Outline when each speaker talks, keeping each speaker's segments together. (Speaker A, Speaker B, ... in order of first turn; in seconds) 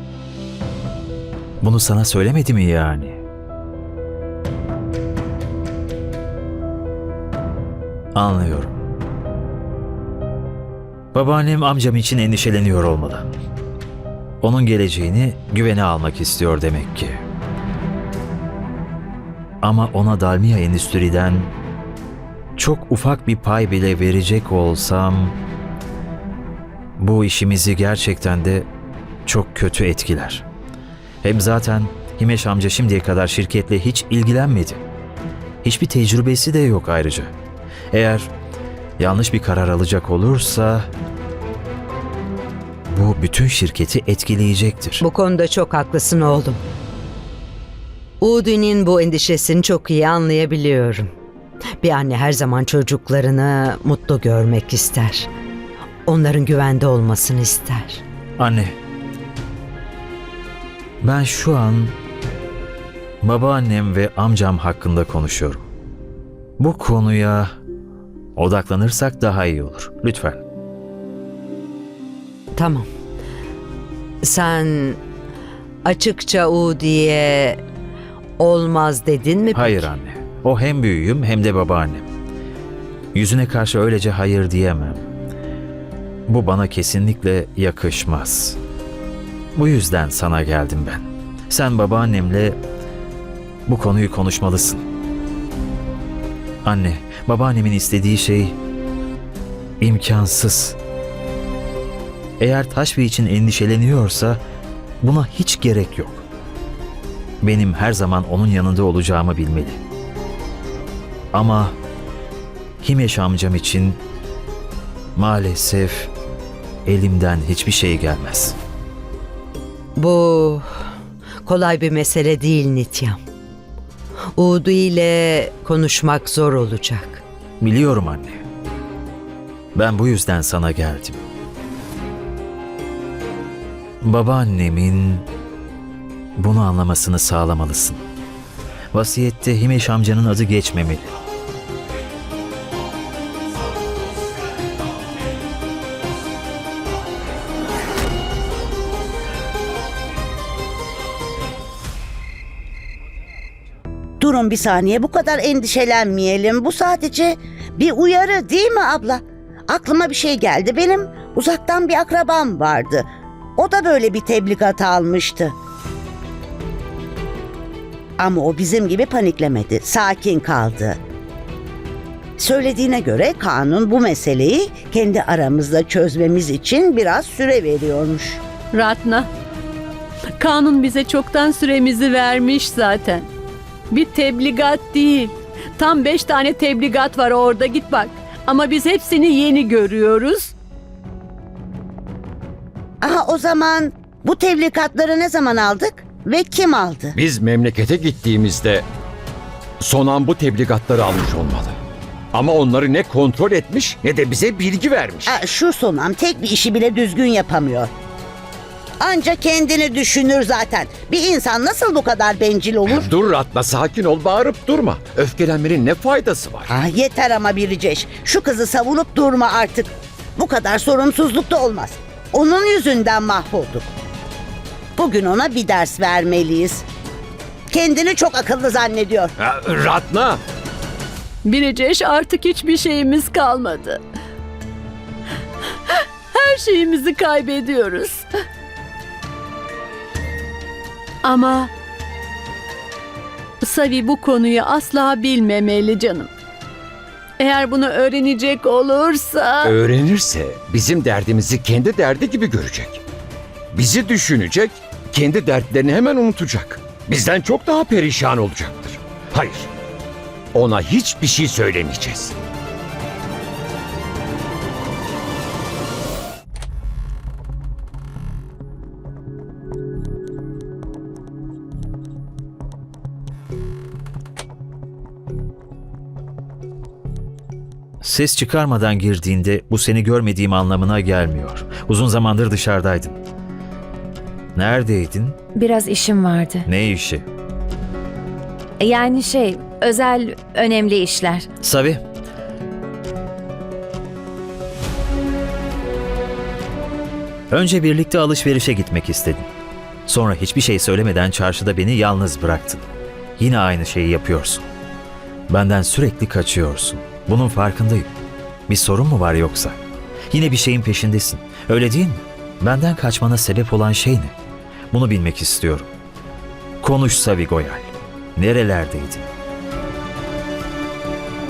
Speaker A: 1.6-3.2, 8.1-8.7, 11.1-13.2, 14.4-17.2, 19.6-21.5, 22.6-25.4, 27.0-28.7, 29.2-30.4, 31.2-34.8, 35.6-37.3, 37.9-38.3, 39.0-40.9, 42.9-45.0, 58.4-58.8, 61.0-61.9, 63.2-65.6, 66.6-67.5, 68.3-70.4, 79.5-82.1, 83.1-85.0, 86.3-88.6, 89.5-92.6, 93.7-94.8, 96.6-98.6, 99.8-100.8, 102.4-104.4, 105.0-106.2, 107.4-109.8, 111.3-111.7, 112.8-114.0, 115.2-116.1, 116.8-118.6, 127.6-128.4, 129.7-131.2, 134.0-135.2, 136.3-138.0, 138.9-141.1, 278.0-283.2, 284.5-285.4, 286.6-287.2, 291.6-292.0, 297.5-299.5, 300.1-302.9, 303.4-304.7, 305.5-308.1, 308.7-309.8, 310.3-314.3, 314.9-315.9, 316.8-319.3
Speaker B: 45.0-46.6, 48.2-51.1, 51.8-55.3, 56.0-58.0, 72.5-72.9, 74.2-75.0, 75.8-77.6, 78.4-79.9, 120.0-120.7, 121.4-123.2, 124.3-127.2
Speaker C: 154.2-163.1, 163.6-165.5, 168.2-171.0, 172.4-178.4, 193.0-197.2, 205.2-207.9, 209.0-213.1, 216.7-223.9, 225.0-226.8, 227.7-229.3
Speaker D: 178.7-179.3, 180.4-183.3, 183.9-190.5, 231.4-234.0, 236.3-238.2, 241.2-241.7, 243.6-246.3, 247.4-249.8
Speaker E: 197.1-198.9, 199.8-201.8, 202.3-205.4, 212.8-216.7, 229.4-230.4, 249.6-253.0, 253.7-259.7, 260.5-262.4
Speaker F: 285.5-286.7, 288.8-291.5